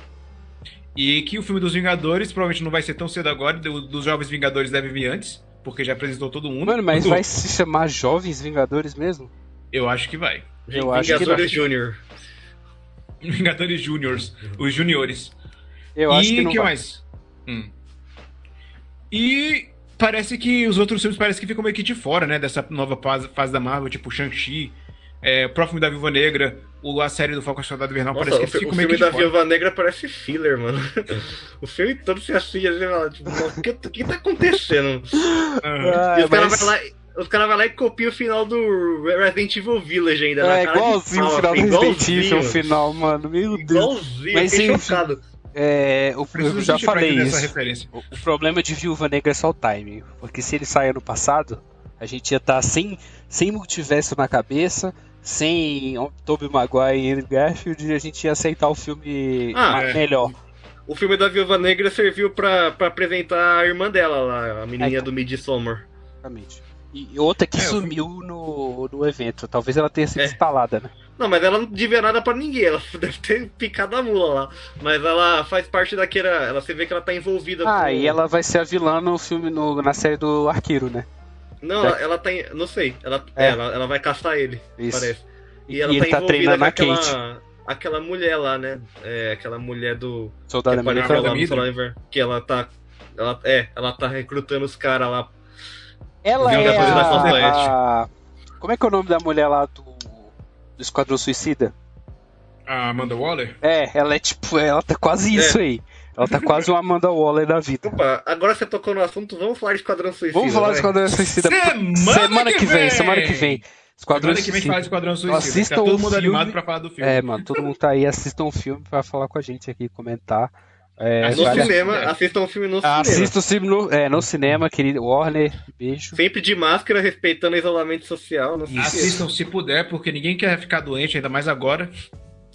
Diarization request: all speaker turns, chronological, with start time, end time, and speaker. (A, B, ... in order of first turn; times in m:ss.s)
0:01.0-0:07.2 A
0:06.6-0:09.3 B
0:09.7-0:10.5 A
0:10.7-0:12.0 C
0:10.7-0:11.6 B
0:13.2-0:15.3 A
0:16.0-0:16.7 B
0:16.1-0:17.7 A
0:19.1-0:29.3 A
0:28.1-0:35.2 C
0:35.2-0:36.7 B
0:35.6-0:36.0 A
0:36.1-0:42.6 C
0:40.4-1:00.3 B
0:43.5-0:45.2 C
0:46.3-0:48.0 A
0:59.5-0:59.8 C
0:59.7-1:00.1 A
1:00.9-1:05.9 C
1:04.8-1:05.1 B
1:06.2-1:10.9 B
1:07.6-1:07.9 A
1:11.2-1:18.2 C
1:17.6-1:21.1 B
1:21.6-1:35.3 C
1:24.8-1:25.1 B
1:25.7-1:27.2 B
1:30.5-1:31.4 B
1:30.9-1:31.7 A
1:36.2-1:38.1 B
1:36.4-1:37.7 C
1:36.4-1:37.5 A
1:38.6-1:41.7 B
1:42.7-1:43.6 A
1:43.6-1:48.0 B
1:45.3-1:45.6 C
1:46.2-1:46.7 A
1:47.8-1:50.9 C
1:50.3-2:01.8 B
1:51.1-1:53.6 A
1:54.1-1:57.7 A
2:01.2-2:02.1 A
2:01.3-2:03.3 C
2:02.8-2:06.2 B
2:06.1-2:09.2 C
2:08.7-2:09.2 B
2:08.8-2:11.9 A